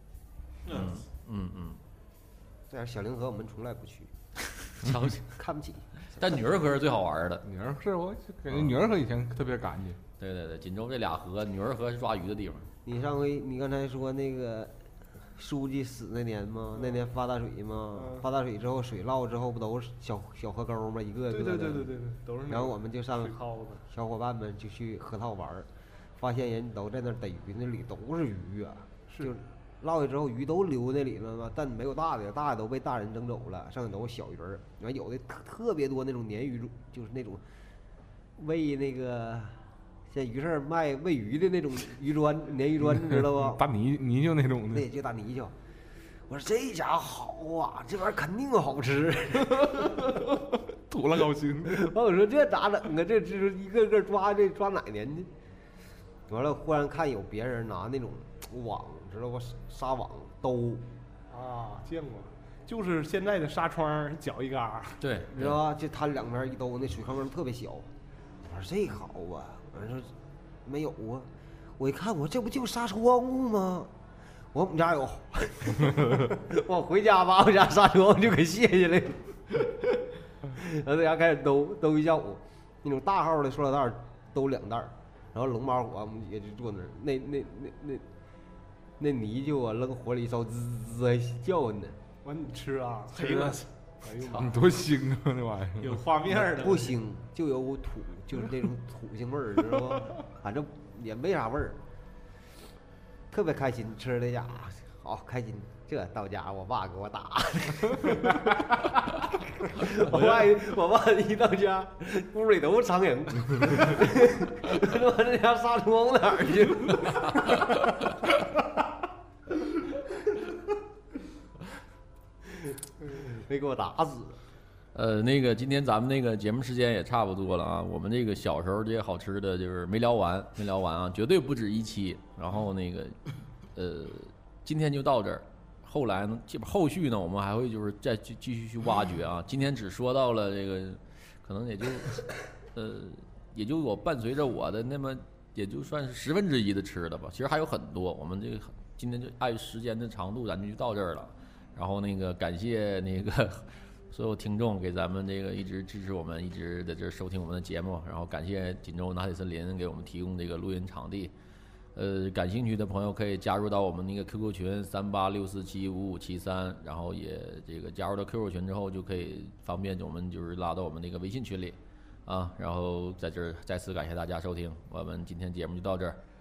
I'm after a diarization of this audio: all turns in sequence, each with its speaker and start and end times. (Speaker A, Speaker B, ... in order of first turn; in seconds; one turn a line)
Speaker A: 0.7-1.0
Speaker B: 0.7-1.8
Speaker C: 2.7-4.1
Speaker B: 4.6-5.4
Speaker C: 5.4-6.4
Speaker B: 6.2-7.5
Speaker D: 7.4-10.0
Speaker B: 10.2-12.7
Speaker C: 12.8-14.7
Speaker C: 15.3-21.9
Speaker E: 17.9-18.3
Speaker E: 21.3-23.8
Speaker C: 22.5-37.4
Speaker C: 38.4-43.6
Speaker D: 42.8-44.9
Speaker C: 44.7-45.5
Speaker C: 46.3-50.2
Speaker D: 49.8-50.2
Speaker D: 50.9-51.9
Speaker C: 51.7-55.3
Speaker C: 56.3-60.9
Speaker E: 61.3-65.0
Speaker B: 65.0-65.6
Speaker C: 65.2-67.9
Speaker C: 68.4-70.1
Speaker C: 70.7-73.9
Speaker C: 74.5-88.0
Speaker C: 89.0-92.0
Speaker E: 92.2-94.6
Speaker A: 93.1-93.7
Speaker D: 94.2-96.0
Speaker A: 95.8-97.0
Speaker C: 96.5-101.8
Speaker C: 103.3-117.8
Speaker C: 122.6-124.4
Speaker B: 125.0-133.2
Speaker B: 133.8-161.3
Speaker B: 161.9-176.2